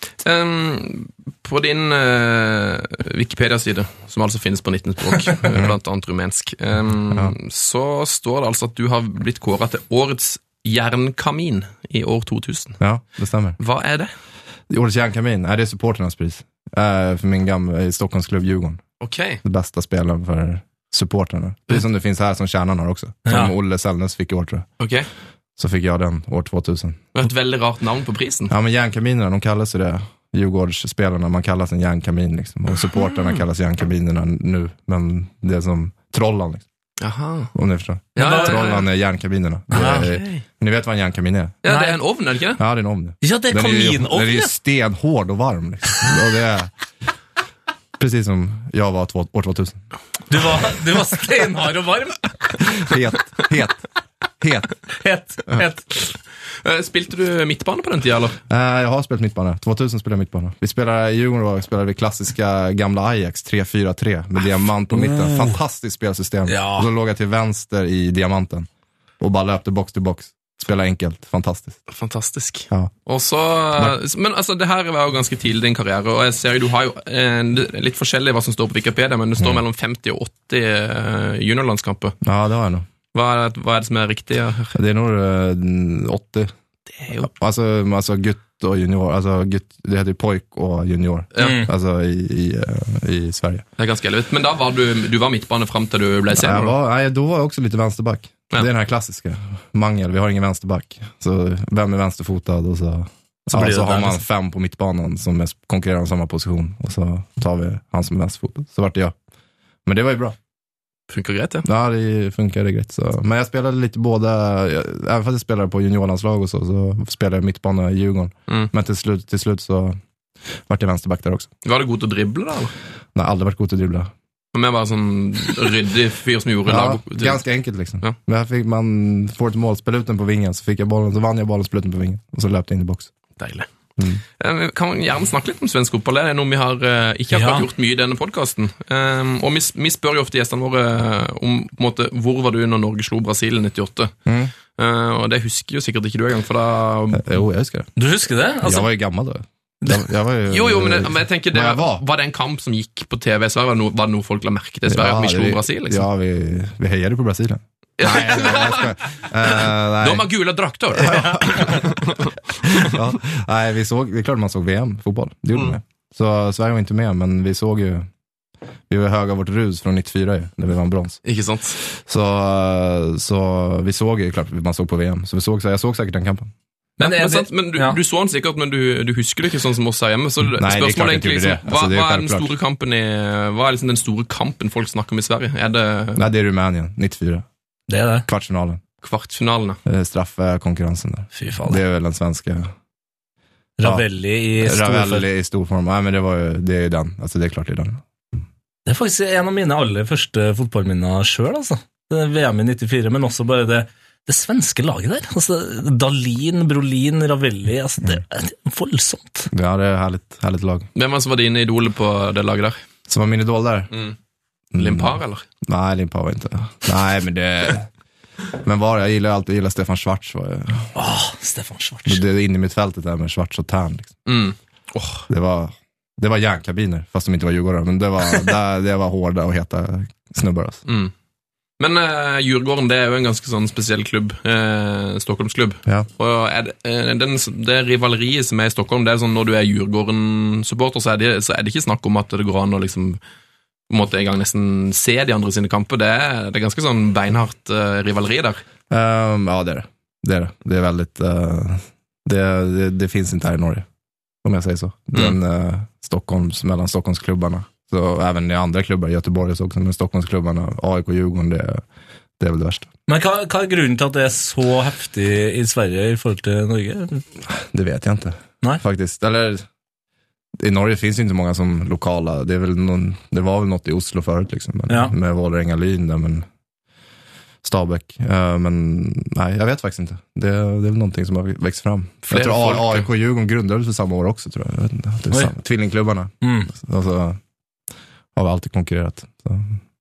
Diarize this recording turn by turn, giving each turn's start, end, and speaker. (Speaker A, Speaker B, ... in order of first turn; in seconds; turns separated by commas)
Speaker A: 0.2-12.8, Speaker B: 5.5-5.8, Speaker B: 12.8-13.6, Speaker A: 13.6-14.1, Speaker B: 14.7-18.8, Speaker A: 19.0-19.4, Speaker B: 19.4-24.7, Speaker C: 23.3-23.5, Speaker A: 24.8-25.1, Speaker B: 25.6-27.0, Speaker A: 27.1-28.5, Speaker B: 28.5-36.6, Speaker A: 32.9-33.4, Speaker A: 37.0-37.5, Speaker B: 37.5-41.5, Speaker A: 38.1-38.9, Speaker C: 38.2-38.6, Speaker C: 39.7-40.1, Speaker A: 40.0-40.4, Speaker A: 41.6-42.6, Speaker C: 41.7-42.0, Speaker B: 42.6-46.7, Speaker C: 43.2-44.5, Speaker B: 48.0-49.8, Speaker C: 50.3-52.3, Speaker B: 52.6-53.8, Speaker B: 54.4-54.7, Speaker C: 55.0-55.8, Speaker A: 56.6-58.4, Speaker B: 58.5-68.7, Speaker C: 64.9-65.5, Speaker C: 66.5-66.9, Speaker B: 69.2-71.8, Speaker A: 71.9-82.1, Speaker B: 82.2-82.8, Speaker A: 83.1-84.7, Speaker B: 84.7-86.5, Speaker A: 87.0-87.3, Speaker B: 87.2-93.6, Speaker A: 91.3-91.6, Speaker C: 91.4-91.7, Speaker A: 93.8-96.7, Speaker B: 96.3-109.1, Speaker C: 103.5-104.2, Speaker B: 109.8-110.3, Speaker A: 111.1-111.7, Speaker B: 111.6-120.0, Speaker B: 120.7-121.5, Speaker A: 121.6-122.7, Speaker B: 123.1-124.1, Speaker A: 124.5-127.4, Speaker B: 126.7-133.1, Speaker A: 133.4-133.7, Speaker A: 134.4-144.1, Speaker C: 137.3-137.7, Speaker B: 144.2-144.5, Speaker A: 144.7-147.3, Speaker B: 147.1-147.9, Speaker C: 148.0-148.9, Speaker B: 148.6-152.0, Speaker A: 150.5-156.0, Speaker B: 154.9-160.2, Speaker A: 158.0-162.9, Speaker B: 160.9-162.2, Speaker B: 162.7-168.1, Speaker B: 168.9-171.2, Speaker A: 171.2-171.8, Speaker B: 171.9-176.5, Speaker C: 177.0-178.0, Speaker A: 177.0-186.2, Speaker B: 180.5-182.5, Speaker B: 186.2-187.4, Speaker C: 187.9-188.2, Speaker B: 188.3-188.8, Speaker A: 189.0-189.8, Speaker B: 189.8-192.7, Speaker C: 191.3-191.8, Speaker C: 193.8-195.2, Speaker B: 193.8-194.1, Speaker B: 194.6-198.0, Speaker C: 198.8-209.5, Speaker B: 209.5-210.9, Speaker A: 210.9-212.8, Speaker B: 213.1-213.9, Speaker B: 214.7-217.9, Speaker A: 214.8-215.4, Speaker B: 218.6-220.9, Speaker C: 220.9-222.2, Speaker B: 222.1-224.2, Speaker A: 224.2-225.2, Speaker B: 225.3-230.8, Speaker A: 230.9-231.1, Speaker A: 231.8-243.2, Speaker A: 243.9-248.6, Speaker B: 248.9-253.8, Speaker B: 254.4-261.8, Speaker B: 262.4-262.9, Speaker C: 263.1-267.2, Speaker B: 267.6-269.6, Speaker B: 270.6-276.5, Speaker B: 277.6-287.4, Speaker A: 282.3-283.1, Speaker C: 286.4-286.7, Speaker B: 288.3-289.8